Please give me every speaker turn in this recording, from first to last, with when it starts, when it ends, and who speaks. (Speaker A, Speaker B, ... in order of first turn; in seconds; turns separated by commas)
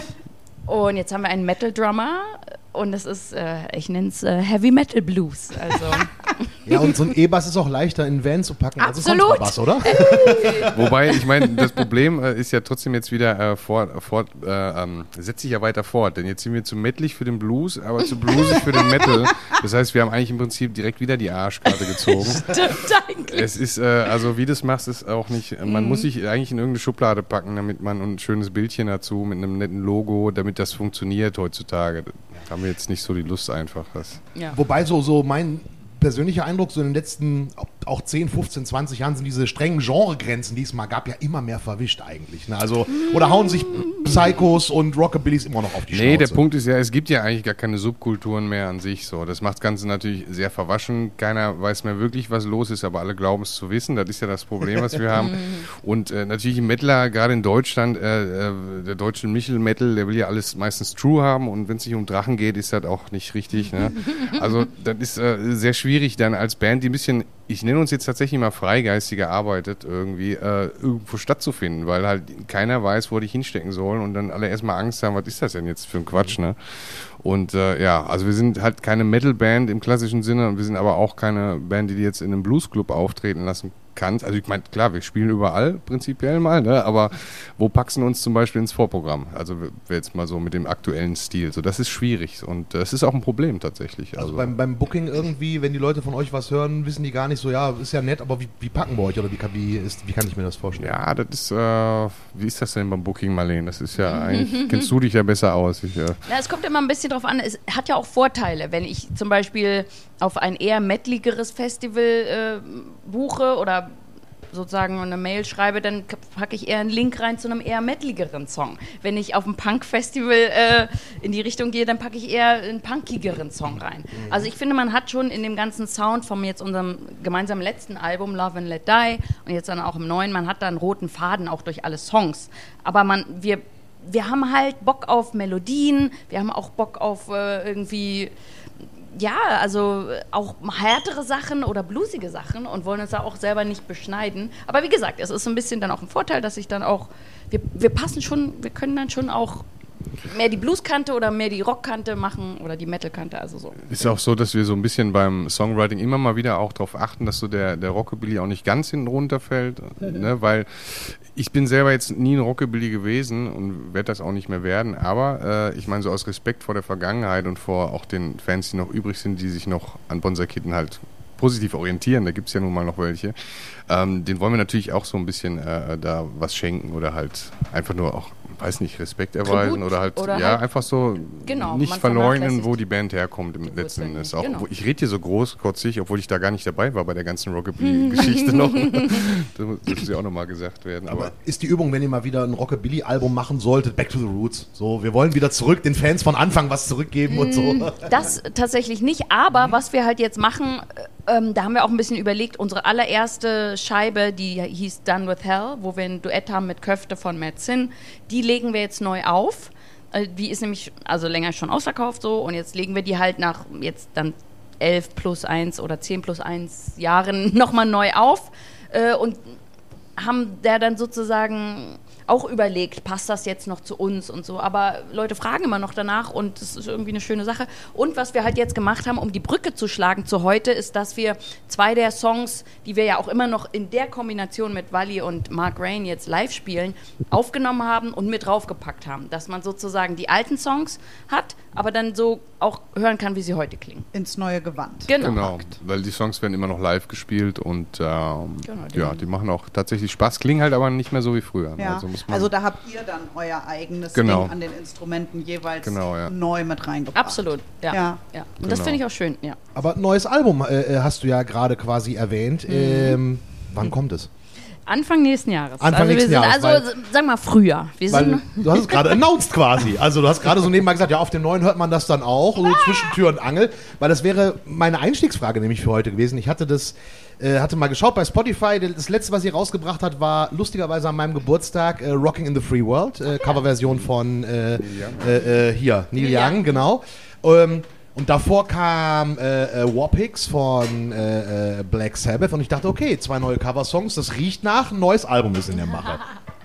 Speaker A: 0.7-7.0, Speaker B: 6.7-10.8, Speaker A: 8.8-10.9, Speaker C: 10.7-22.7, Speaker A: 18.3-19.1, Speaker A: 22.2-23.5, Speaker C: 23.2-34.2, Speaker A: 25.7-26.1, Speaker B: 34.5-46.4, Speaker A: 43.7-44.0, Speaker C: 45.9-94.5, Speaker A: 55.2-55.6, Speaker A: 64.1-64.4, Speaker B: 94.2-100.9, Speaker C: 100.8-106.2, Speaker A: 104.0-104.9, Speaker A: 106.3-113.9, Speaker A: 114.5-138.3, Speaker B: 124.1-124.5, Speaker A: 139.1-149.7, Speaker A: 150.2-154.1, Speaker C: 153.9-173.3, Speaker C: 173.9-191.3, Speaker A: 179.5-180.6, Speaker A: 181.4-182.8, Speaker A: 183.6-184.7, Speaker A: 187.8-189.3, Speaker B: 191.1-198.3, Speaker A: 197.3-219.6, Speaker A: 220.2-244.1, Speaker D: 244.1-245.7, Speaker A: 245.1-245.4, Speaker C: 245.2-252.5, Speaker A: 248.6-249.3, Speaker D: 251.8-258.2, Speaker C: 254.1-254.6, Speaker C: 255.8-256.3, Speaker A: 257.1-259.6, Speaker C: 258.6-259.0, Speaker B: 259.8-264.3, Speaker A: 262.7-263.2, Speaker A: 264.9-269.2, Speaker B: 265.8-266.9, Speaker B: 268.1-296.2, Speaker C: 284.8-285.3, Speaker A: 286.1-286.7